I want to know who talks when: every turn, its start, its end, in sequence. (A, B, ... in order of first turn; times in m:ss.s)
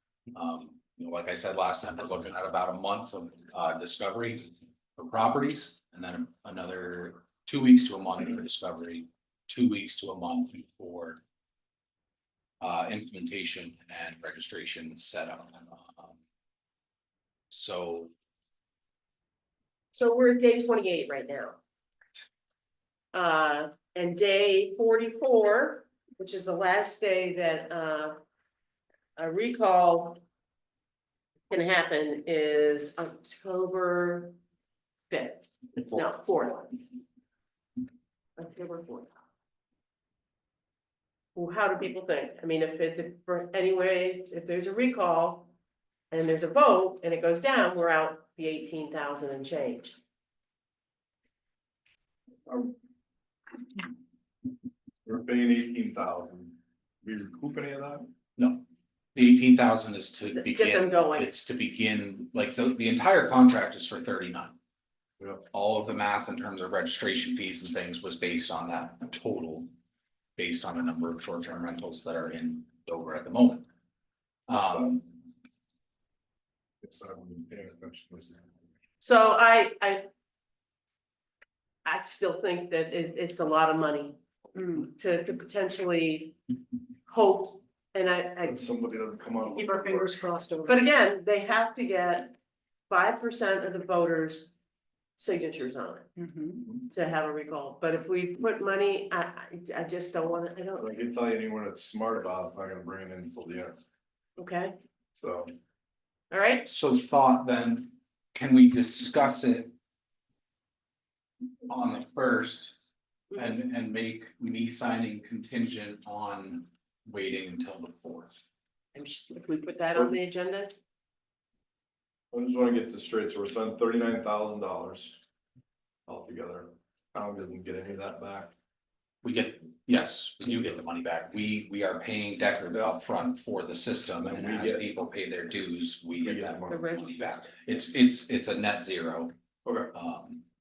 0:00.3-0:11.2 A
0:12.6-0:16.2 A
0:17.5-0:18.1 A
0:19.9-0:21.6 B
0:23.1-0:28.2 B
0:29.2-0:30.2 B
0:31.5-0:34.4 B
0:35.1-0:36.8 B
0:38.4-0:39.1 B
0:41.3-0:45.5 B
0:46.1-0:50.0 B
0:55.0-0:58.1 C
0:58.4-1:04.6 A
1:00.3-1:01.3 B
1:05.2-1:05.5 C
1:05.5-1:09.7 A
1:10.4-1:13.7 A
1:14.5-1:15.2 A
1:16.8-1:18.5 C
1:19.0-1:20.1 B
1:21.8-1:24.2 B
1:24.6-1:24.9 D
1:24.9-1:26.4 B
1:27.1-1:28.6 B
1:28.4-1:30.0 C
1:29.5-1:30.8 D
1:30.6-1:32.3 B
1:32.9-1:34.5 B
1:35.2-1:36.1 B
1:36.2-1:36.6 D
1:36.9-1:40.9 B
1:40.8-1:43.8 C
1:44.4-1:44.8 B
1:45.1-1:45.5 C
1:46.3-1:46.6 B
1:46.6-1:49.7 A
1:51.7-1:52.8 A
1:53.3-1:58.4 A
1:58.9-2:00.7 B
2:02.3-2:05.2 C
2:06.0-2:08.5 C
2:09.2-2:19.3 A
2:12.7-2:13.0 C
2:14.2-2:14.9 C
2:16.2-2:16.9 C
2:16.7-2:17.2 B
2:19.6-2:19.9 C
2:19.9-2:20.4 A